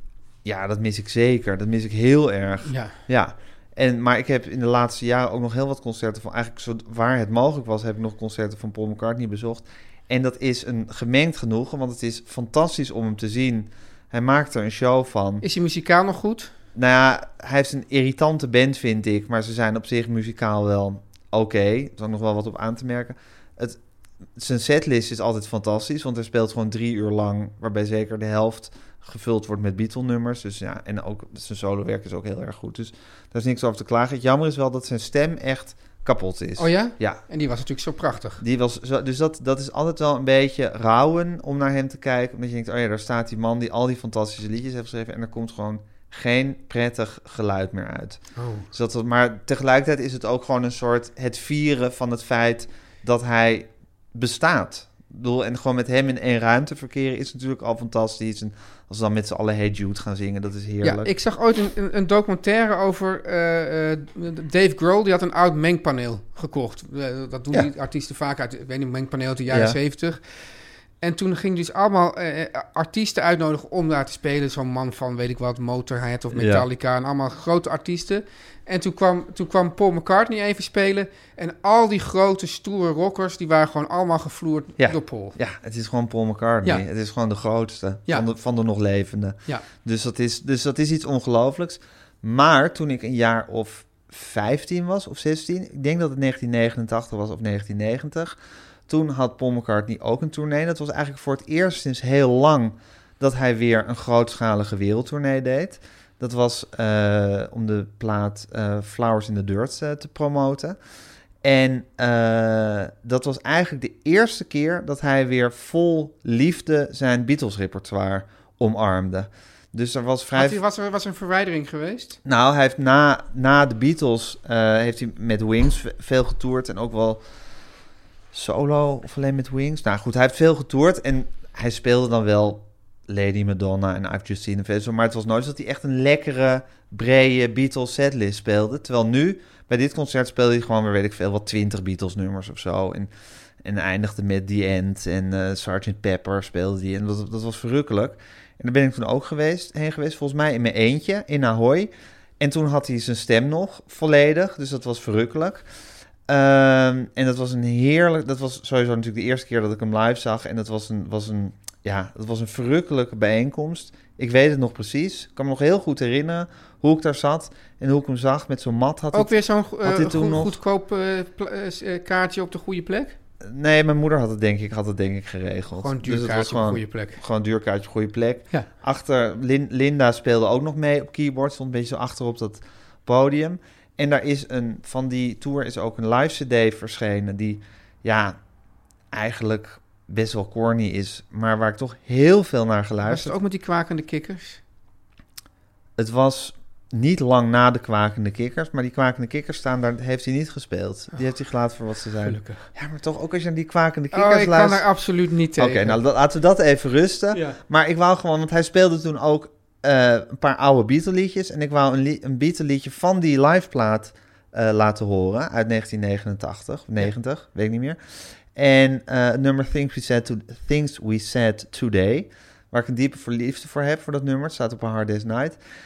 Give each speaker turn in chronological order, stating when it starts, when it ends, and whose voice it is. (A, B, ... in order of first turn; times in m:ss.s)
0:00.4-0:15.4 A
0:02.6-0:03.0 B
0:15.4-0:16.5 B
0:16.8-0:23.8 A
0:24.4-0:37.2 A
0:36.6-0:38.4 B
0:38.4-1:01.1 A
0:48.4-0:48.7 B
1:00.8-1:10.2 B
1:09.5-1:09.8 A
1:11.0-1:25.4 B
1:16.3-1:16.7 A
1:24.8-1:38.4 A
1:38.9-1:50.8 A
1:51.4-2:00.6 A
2:00.4-2:02.2 B
2:02.2-2:07.2 A
2:08.3-2:23.1 A
2:23.6-2:35.6 A
2:36.3-2:50.6 A
2:49.1-2:53.2 B
2:53.4-3:08.4 A
2:55.8-2:57.2 B
3:09.1-3:13.3 A
3:13.0-3:14.6 B
3:16.0-3:24.8 A
3:22.2-3:22.6 B
3:24.1-3:26.0 B
3:25.6-3:38.0 A
3:27.3-3:27.6 B
3:38.6-3:45.6 A